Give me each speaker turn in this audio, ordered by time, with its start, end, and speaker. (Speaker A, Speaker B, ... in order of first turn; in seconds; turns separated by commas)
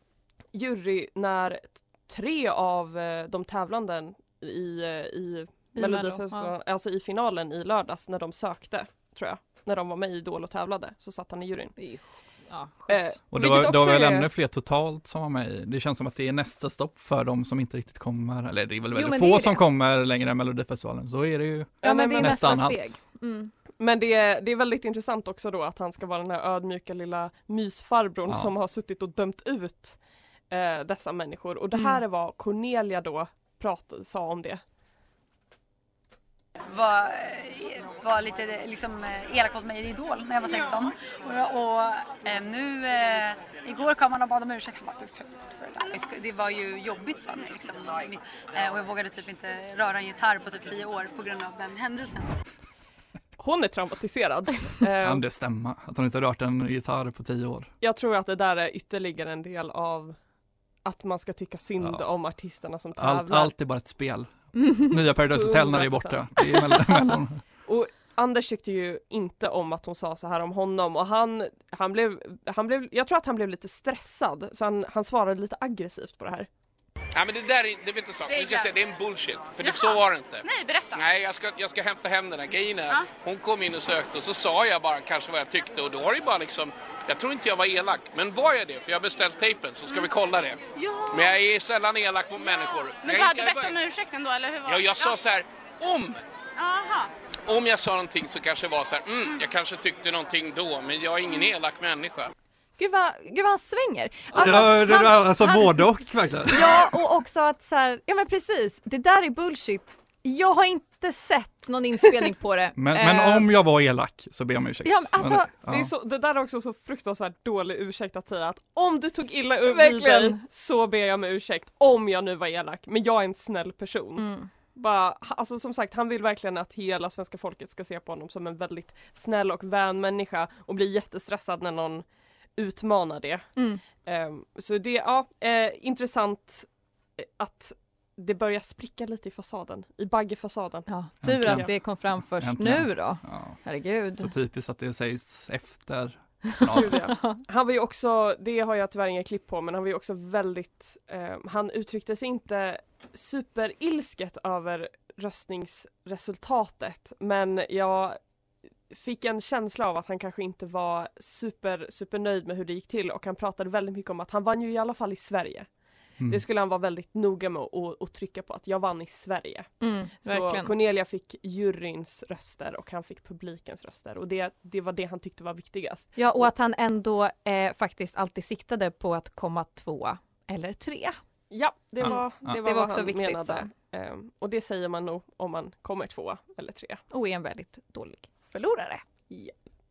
Speaker A: 0.5-11.7, Speaker B: 5.7-6.5, Speaker B: 11.8-13.0, Speaker A: 12.9-14.3, Speaker C: 13.3-23.0, Speaker B: 18.9-19.6, Speaker A: 21.8-22.6, Speaker B: 21.8-23.5, Speaker A: 23.8-30.0, Speaker C: 28.3-28.5, Speaker A: 30.5-34.6, Speaker B: 31.7-32.0, Speaker D: 36.7-52.3, Speaker A: 53.4-55.2, Speaker C: 55.0-57.7, Speaker A: 57.8-60.1, Speaker A: 60.8-63.5, Speaker C: 61.8-62.1, Speaker C: 62.9-67.4, Speaker B: 64.5-64.9, Speaker A: 65.3-66.3, Speaker A: 67.6-76.5, Speaker E: 77.1-93.8, Speaker F: 79.6-81.0, Speaker F: 90.8-91.3, Speaker F: 92.4-95.2, Speaker E: 94.7-96.2, Speaker F: 96.6-97.1, Speaker E: 97.5-102.3, Speaker B: 102.8-105.9, Speaker C: 104.3-107.0, Speaker B: 106.4-113.5, Speaker C: 112.8-115.9, Speaker B: 114.8-115.5, Speaker A: 115.7-132.0, Speaker B: 119.7-120.4, Speaker B: 124.2-124.5, Speaker A: 132.6-133.5, Speaker B: 133.6-133.8, Speaker A: 134.0-136.7, Speaker A: 137.2-140.9, Speaker B: 140.9-144.3, Speaker C: 141.2-143.6, Speaker A: 141.4-141.7, Speaker C: 144.2-147.0, Speaker B: 146.5-147.4, Speaker A: 146.7-158.2, Speaker A: 158.9-165.7, Speaker A: 166.3-176.4, Speaker B: 169.8-170.7, Speaker B: 176.2-181.2, Speaker A: 181.5-187.0, Speaker B: 182.0-183.7, Speaker C: 182.1-182.5, Speaker B: 187.1-189.0